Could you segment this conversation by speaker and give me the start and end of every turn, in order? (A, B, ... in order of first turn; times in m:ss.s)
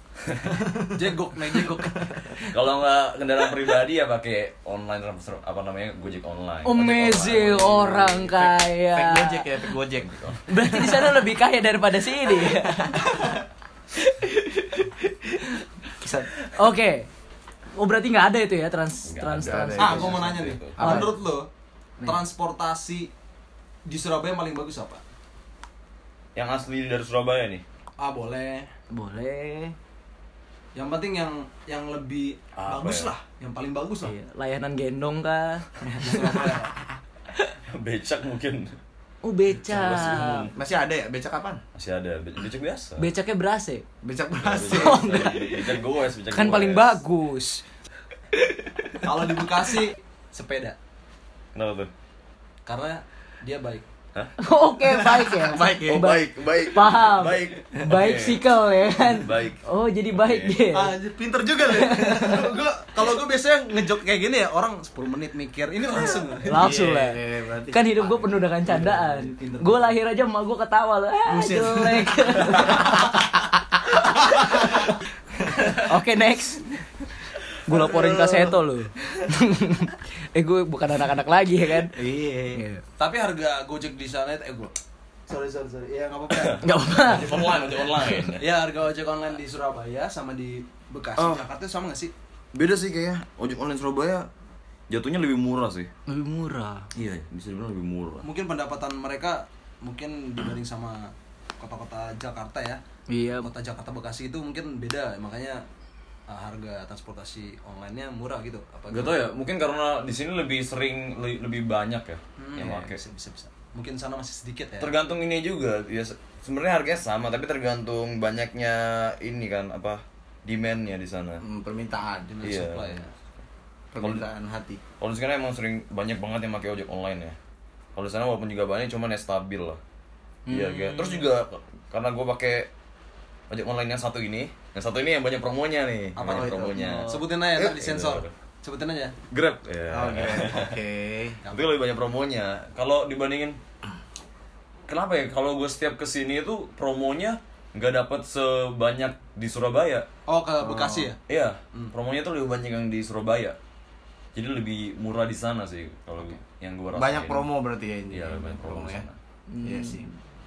0:00.2-0:00.6 A
0:00.4-0:02.3 B
0:00.9-0:02.2 C
0:02.4-0:08.5 A
0:06.6-0:09.5 D
0:08.9-0:10.1 B
0:10.0-0:10.4 A
0:10.5-0:13.1 D
0:12.4-0:13.3 B
0:13.9-0:15.6 D
0:16.0-0:16.3 B
0:16.3-0:17.1 D
0:17.7-0:20.1 D
0:19.0-0:20.8 A
0:19.4-0:21.1 B
0:19.8-0:21.5 C
0:20.8-0:21.1 D
0:22.0-0:23.1 C
0:23.8-0:25.0 C
0:26.3-0:27.6 A
0:28.0-0:28.7 C
0:28.9-0:29.8 D
0:30.7-0:34.1 C
0:32.6-0:33.1 A
0:34.0-0:36.5 D
0:36.0-0:36.7 C
0:37.7-0:38.7 A
0:39.2-0:40.5 D
0:39.7-0:41.6 B
0:39.8-0:40.2 C
0:41.7-0:43.0 A
0:43.0-0:43.8 D
0:44.0-0:45.1 B
0:44.4-0:47.0 A
0:44.7-0:45.6 D
0:46.3-0:47.6 D
0:48.3-0:49.4 D
0:49.0-0:50.8 C
0:51.5-0:51.9 A
0:52.6-0:53.8 C
0:54.4-1:01.0 D
0:54.8-0:56.1 B
0:55.8-0:58.4 A
0:59.1-1:00.6 A
1:00.7-1:06.6 C
1:01.6-1:02.5 D
1:06.4-1:08.0 B
1:06.4-1:07.2 D
1:07.7-1:13.2 D
1:08.6-1:09.9 C
1:11.2-1:15.6 B
1:13.9-1:14.9 D
1:15.8-1:16.8 D
1:17.6-1:21.9 D
1:17.7-1:19.3 B
1:21.9-1:22.6 B
1:22.5-1:22.8 D
1:23.0-1:24.7 C
1:25.3-1:27.6 C
1:26.3-1:28.5 A
1:26.6-1:27.5 D
1:28.4-1:32.1 C
1:31.2-1:31.4 A
1:32.5-1:34.3 A
1:34.9-1:35.9 A
1:36.1-1:36.9 D
1:36.9-1:38.3 A
1:38.2-1:42.8 C
1:43.1-1:43.5 D
1:43.4-1:45.6 C
1:46.3-1:49.2 C
1:48.9-1:53.0 A
1:52.4-1:54.9 C
1:54.8-2:01.4 A
2:01.4-2:02.3 B
2:02.2-2:03.1 C
2:02.4-2:03.0 A
2:03.9-2:04.8 B
2:05.0-2:07.3 A
2:08.0-2:09.8 A
2:10.5-2:11.3 D
2:10.5-2:12.7 A
2:13.5-2:18.3 A
2:16.2-2:19.2 C
2:16.2-2:17.1 B
2:19.3-2:20.8 A
2:19.9-2:21.4 B
2:21.4-2:21.8 C
2:21.5-2:23.6 A
2:24.9-2:30.1 A
2:30.3-2:31.2 C
2:30.6-2:31.1 B
2:31.3-2:33.6 A
2:34.3-2:37.5 A
2:36.9-2:39.0 B
2:38.1-2:39.2 A
2:39.5-2:40.0 D
2:39.6-2:40.1 B